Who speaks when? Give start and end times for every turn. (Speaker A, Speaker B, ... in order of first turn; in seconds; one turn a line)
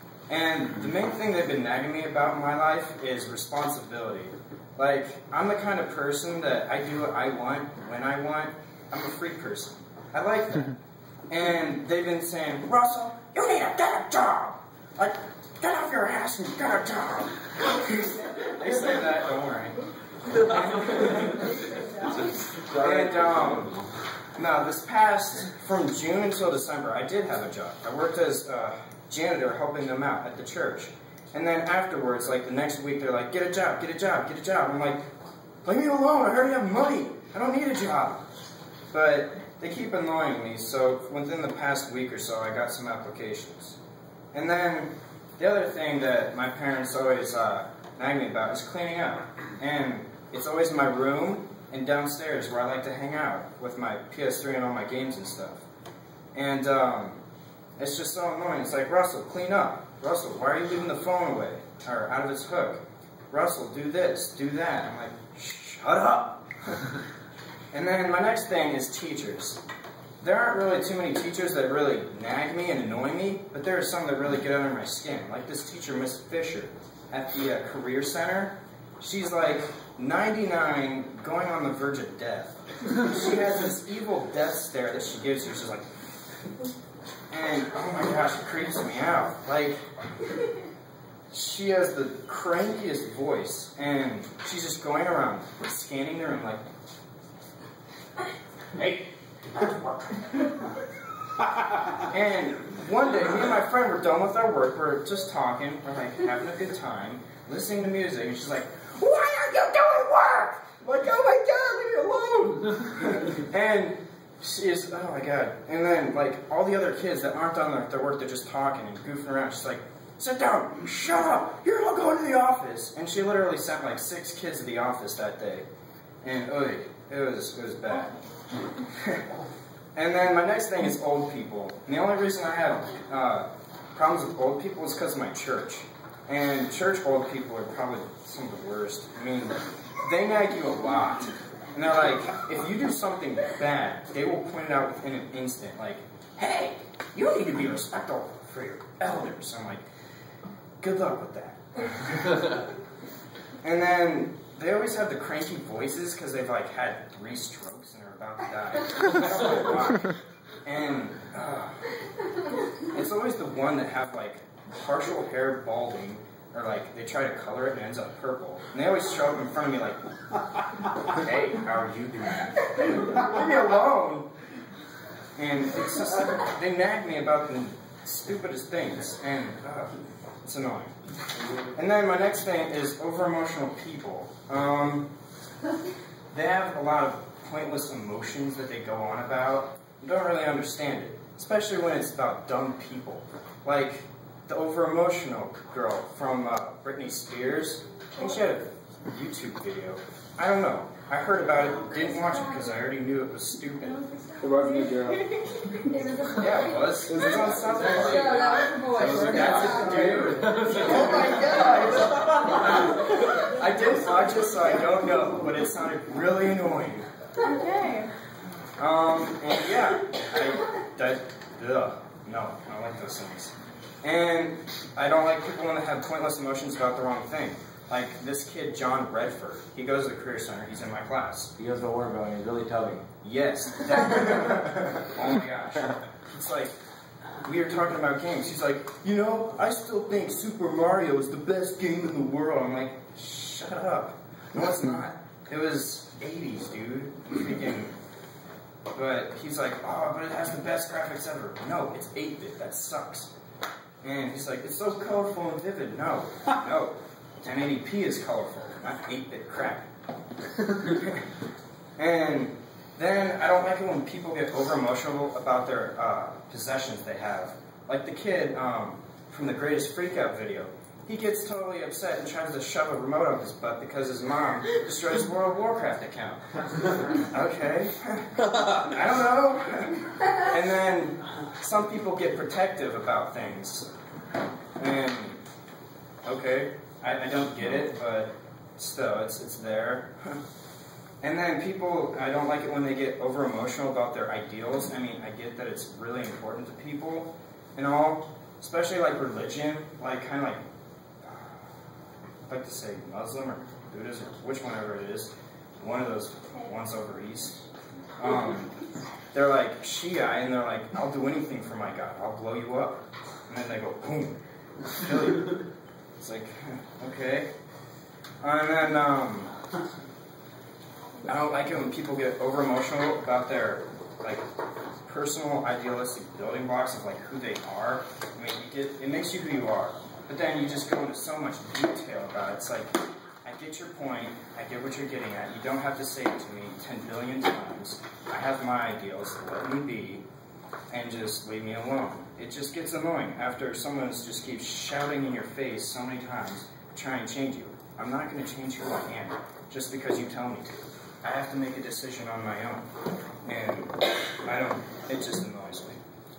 Speaker A: 0.3-10.8
Speaker A: 11.3-23.7
Speaker B: 21.8-22.2
Speaker C: 22.6-23.4
Speaker A: 24.4-35.0
Speaker A: 35.6-38.2
Speaker A: 38.9-43.8
Speaker A: 44.3-55.6
Speaker A: 56.3-57.2
Speaker A: 57.8-66.9
Speaker A: 67.7-69.6
Speaker A: 70.2-85.8
Speaker A: 87.3-89.8
Speaker A: 91.3-96.6
Speaker A: 98.8-99.1
Speaker A: 99.6-100.0
Speaker A: 102.0-125.7
Speaker A: 126.2-128.2
Speaker A: 128.8-129.2
Speaker A: 129.9-149.8
Speaker A: 150.8-152.7
Speaker A: 153.6-161.9
Speaker A: 162.8-170.0
Speaker A: 171.1-172.2
Speaker C: 171.9-172.5
Speaker A: 172.7-174.3
Speaker A: 175.3-180.9
Speaker A: 181.7-185.1
Speaker A: 186.3-204.0
Speaker B: 201.8-202.7
Speaker B: 203.8-211.8
Speaker C: 204.4-205.3
Speaker A: 206.3-217.1
Speaker C: 207.1-207.9
Speaker C: 209.0-211.5
Speaker B: 217.4-218.1
Speaker A: 218.8-231.5
Speaker C: 231.6-233.0
Speaker A: 233.2-236.7
Speaker A: 237.4-247.9
Speaker A: 248.9-253.3
Speaker A: 254.0-259.8
Speaker A: 260.8-261.2
Speaker A: 262.0-283.9
Speaker A: 284.8-285.4
Speaker A: 286.2-290.4
Speaker A: 291.2-300.6
Speaker A: 301.2-301.6
Speaker A: 302.5-307.6
Speaker A: 308.2-308.8
Speaker A: 309.3-314.4
Speaker A: 314.9-315.6
Speaker A: 316.2-317.5
Speaker A: 318.4-319.5
Speaker A: 321.2-324.4
Speaker A: 325.0-340.2
Speaker A: 340.9-352.9
Speaker A: 353.4-356.0